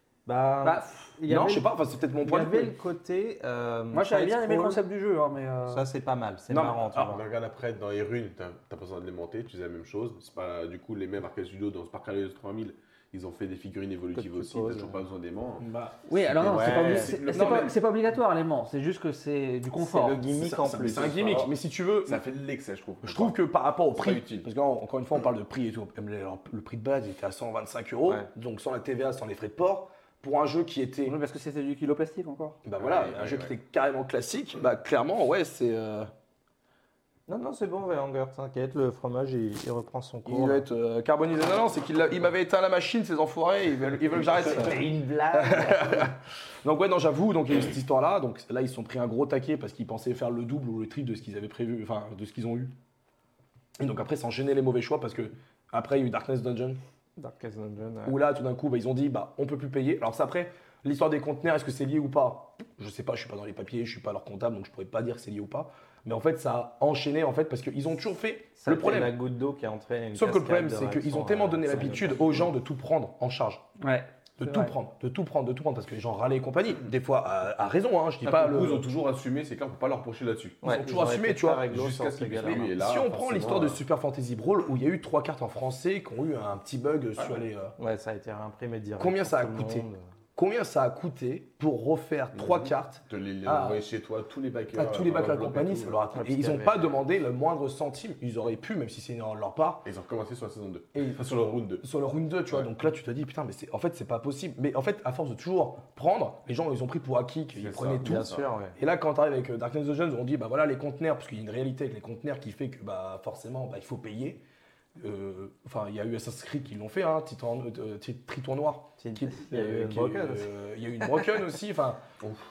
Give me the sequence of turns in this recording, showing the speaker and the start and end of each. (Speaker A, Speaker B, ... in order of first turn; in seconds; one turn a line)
Speaker A: 0.2-4.8
Speaker B: 0.6-1.1
Speaker C: 1.3-2.7
Speaker B: 3.9-5.8
Speaker A: 5.7-7.2
Speaker C: 6.5-7.1
Speaker D: 6.9-17.7
Speaker A: 14.1-15.0
Speaker C: 15.6-15.9
Speaker B: 16.1-20.2
Speaker A: 16.4-17.2
Speaker C: 17.3-17.7
Speaker A: 19.8-21.5
Speaker C: 20.3-22.2
Speaker D: 20.8-21.5
Speaker D: 22.0-23.4
Speaker C: 23.0-31.1
Speaker D: 23.9-24.5
Speaker B: 31.0-32.6
Speaker C: 32.6-36.1
Speaker D: 32.8-33.5
Speaker A: 37.3-40.6
Speaker C: 40.2-52.7
Speaker A: 44.4-46.1
Speaker C: 53.8-56.8
Speaker A: 57.2-58.2
Speaker C: 58.0-69.1
Speaker A: 68.6-72.5
Speaker C: 70.1-73.6
Speaker B: 73.8-74.7
Speaker C: 74.4-78.8
Speaker D: 78.2-80.8
Speaker A: 80.6-82.7
Speaker C: 80.6-81.7
Speaker D: 81.7-83.8
Speaker C: 82.4-87.7
Speaker A: 87.8-90.0
Speaker C: 89.0-93.8
Speaker D: 92.3-96.1
Speaker C: 94.7-99.9
Speaker A: 96.1-97.0
Speaker D: 99.8-101.8
Speaker C: 100.9-114.4
Speaker D: 107.5-108.5
Speaker A: 108.0-108.8
Speaker C: 115.0-122.0
Speaker A: 119.0-120.5